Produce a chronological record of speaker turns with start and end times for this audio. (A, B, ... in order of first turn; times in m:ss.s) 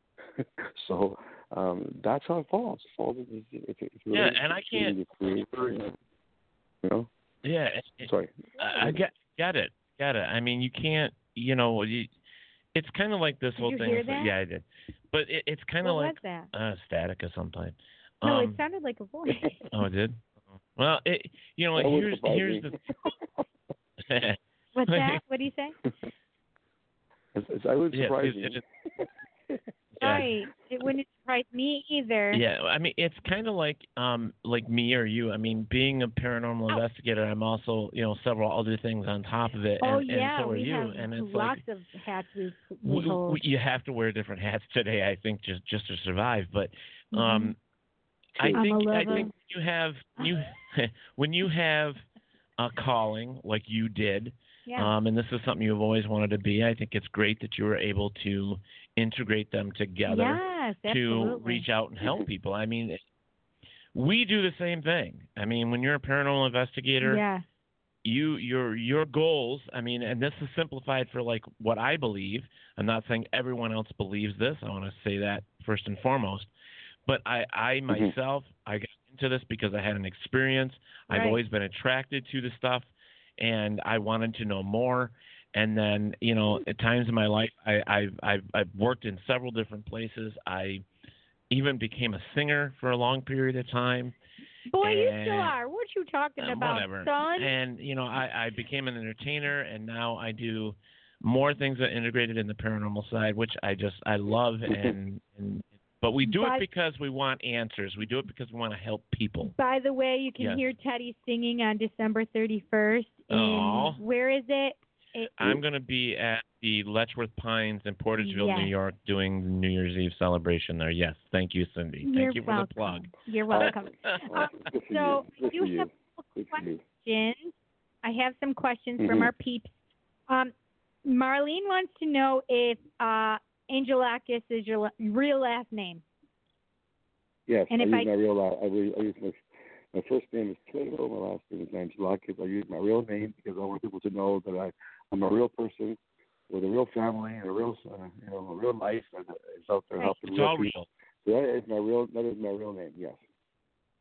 0:00.4-0:06.0 A
0:04.1-0:04.9 B
0:06.8-0:07.1 A
0:07.4-0:12.1 B
0:08.0-0:09.0 A
0:08.6-0:08.8 C
0:12.7-0:18.6 B
0:13.6-0:14.3 C
0:15.8-0:16.5 C
0:18.2-0:19.5 C
0:19.7-0:20.2 B
0:20.8-0:22.8 B
0:21.8-0:23.1 A
0:24.0-0:24.4 B
0:24.7-0:25.8 C
0:24.9-0:25.2 B
0:27.3-0:30.2 A
0:27.9-0:28.6 B
0:30.0-0:30.3 B
0:30.0-0:32.4 C
0:32.3-0:41.6 B
0:39.8-0:43.4 C
0:42.8-0:47.6 B
0:47.1-0:47.5 C
0:48.4-0:52.0 B
0:48.4-0:48.6 A
0:48.5-0:49.3 C
0:52.6-1:03.0 B
0:54.7-0:54.9 C
1:00.1-1:01.6 C
1:03.9-1:07.2 B
1:07.0-1:07.4 C
1:08.0-1:16.5 B
1:17.0-1:22.9 B
1:17.9-1:18.1 A
1:21.1-1:21.4 C
1:23.4-1:30.8 B
1:31.5-1:34.1 B
1:34.7-1:37.5 C
1:34.8-1:35.5 B
1:36.4-1:49.5 B
1:44.7-1:45.0 A
1:46.2-1:46.6 C
1:49.4-1:55.5 C
1:53.3-1:54.0 B
1:55.4-2:04.2 B
1:58.2-1:58.7 C
2:02.0-2:07.5 C
2:03.5-2:06.8 A
2:08.0-2:09.7 C
2:09.0-2:09.3 A
2:10.3-2:10.5 C
2:11.0-2:16.0 C
2:17.5-2:19.4 A
2:17.7-2:18.1 C
2:19.9-2:26.0 A
2:26.5-2:33.2 A
2:30.2-2:30.9 B